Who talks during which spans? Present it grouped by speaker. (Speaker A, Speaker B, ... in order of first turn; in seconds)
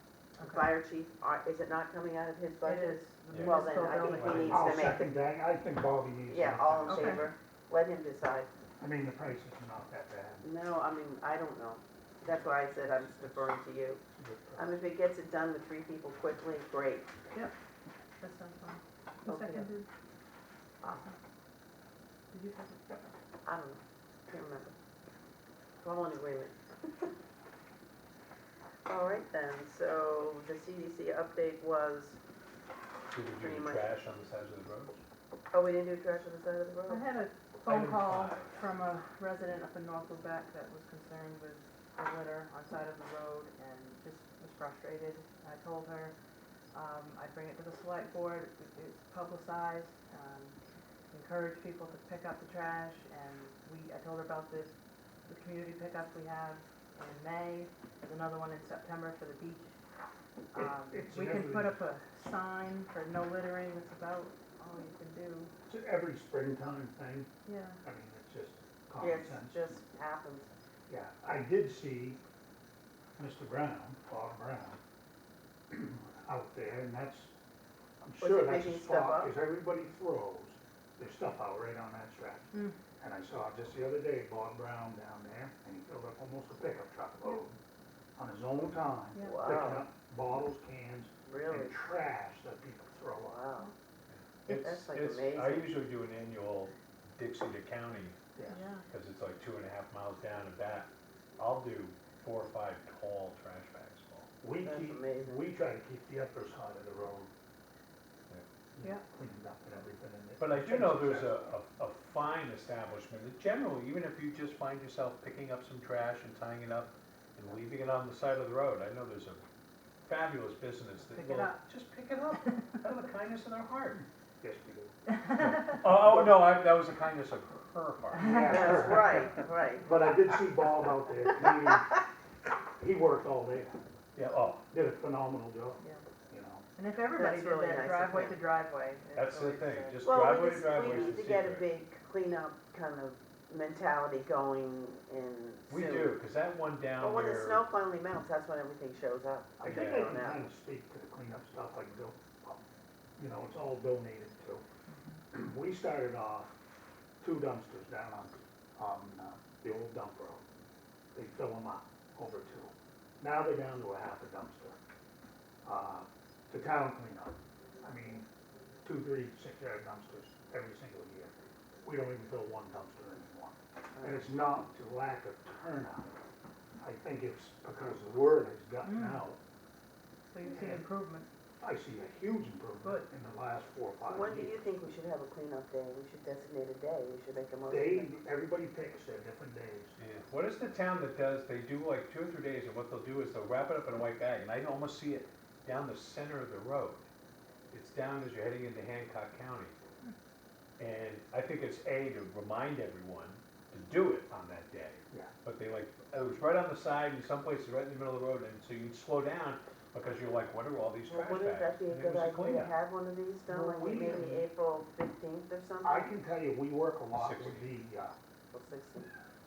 Speaker A: 0.4-0.7, 2.6-4.6, 6.9-7.3, 18.2-19.9, 20.8-21.2, 22.3-22.8, 36.9-46.1, 46.7-50.6, 51.1-54.7, 55.2-59.7, 60.5-65.5, 67.5-67.8, 89.1-89.5, 98.5-98.9, 121.1-121.6, 125.2-125.5, 135.8-136.1, 136.8-140.1, 154.9-155.2, 178.8-179.3, 180.3-181.3
Speaker B: 0.4-5.1, 6.3-8.5, 10.4-14.0, 14.6-17.1, 19.3-19.7, 23.4-24.8, 25.8-27.1, 28.9-32.2, 33.3-34.0, 35.5-37.1, 69.0-70.5, 78.2-79.3, 89.2-89.9, 91.3-91.8, 93.3-93.7, 94.5-95.7, 104.6-105.5, 128.4-130.3, 137.2-138.4, 140.0-146.2, 147.0-150.5, 173.9-174.3, 184.0-188.2, 211.1-216.2, 218.5-219.1
Speaker C: 3.3-4.7, 33.1-35.0, 37.6-38.6, 94.1-98.2, 98.9-104.3, 110.4-119.4, 120.0-124.0, 125.4-129.3, 134.2-134.7, 139.2-141.7, 145.7-147.7, 149.7-150.2, 190.0-197.1, 197.7-199.8, 200.8-212.7, 217.2-217.7
Speaker D: 4.5-7.3, 8.8-10.5, 12.7-13.5, 14.1-14.7, 60.5-61.8, 65.7-67.3, 67.8-69.7, 70.9-72.2, 73.2-74.8, 75.7-77.3, 78.0-87.5, 88.2-93.4, 98.4-98.7, 104.4-107.3, 108.8-111.5, 124.4-125.0, 128.2-129.3, 129.8-132.0, 132.8-133.8, 134.7-136.7, 149.6-152.6, 153.2-154.7, 155.3-156.6, 157.2-160.4, 161.1-164.8, 165.7-168.3, 168.8-176.2, 176.8-179.4, 180.4-180.9, 181.6-184.7, 187.7-190.0, 213.5-214.4, 215.8-218.1